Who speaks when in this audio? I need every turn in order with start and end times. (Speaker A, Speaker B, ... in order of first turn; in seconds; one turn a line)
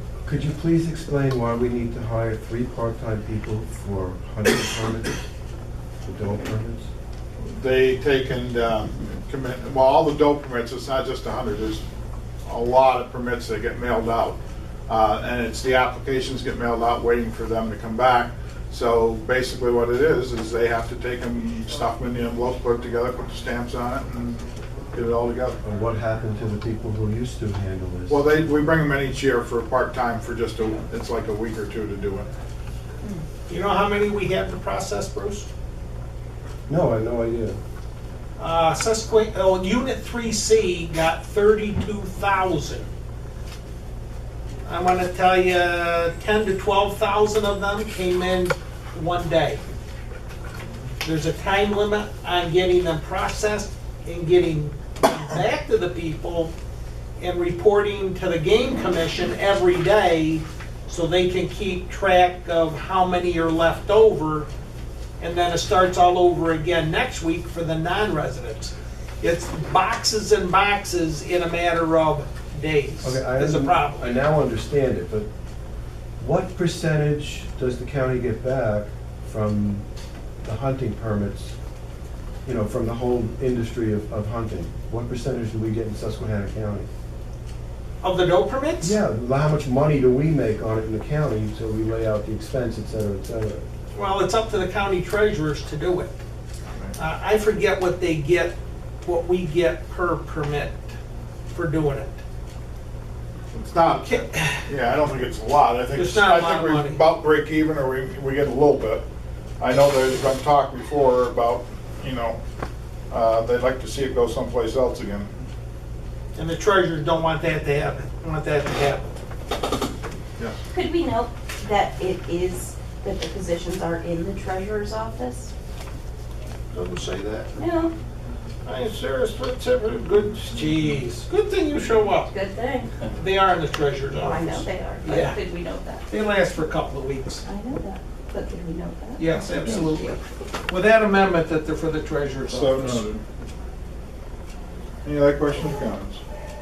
Speaker A: 0.2-5.2
Speaker A: 6.0-6.9
Speaker B: 7.4-11.8
Speaker B: 12.4-25.6
Speaker A: 25.6-28.2
Speaker B: 28.1-32.3
Speaker C: 33.5-35.5
Speaker A: 36.7-37.6
Speaker C: 38.4-42.9
Speaker C: 44.6-49.6
Speaker C: 51.0-56.5
Speaker C: 57.2-64.5
Speaker C: 65.2-74.0
Speaker A: 73.0-75.3
Speaker A: 76.2-79.8
Speaker A: 80.4-81.5
Speaker A: 82.4-86.9
Speaker C: 88.0-89.0
Speaker A: 88.8-93.7
Speaker C: 93.9-96.1
Speaker C: 97.0-100.9
Speaker C: 101.5-102.2
Speaker B: 103.5-109.0
Speaker C: 103.9-104.6
Speaker C: 105.9-107.0
Speaker B: 109.6-112.4
Speaker B: 113.1-115.3
Speaker C: 116.3-119.1
Speaker D: 120.7-125.5
Speaker C: 126.7-127.5
Speaker D: 127.5-127.9
Speaker C: 128.6-132.3
Speaker D: 132.3-133.0
Speaker C: 133.1-135.4
Speaker D: 134.1-136.0
Speaker C: 136.1-137.4
Speaker D: 137.4-140.1
Speaker C: 139.2-143.1
Speaker B: 142.5-143.2
Speaker B: 145.0-146.2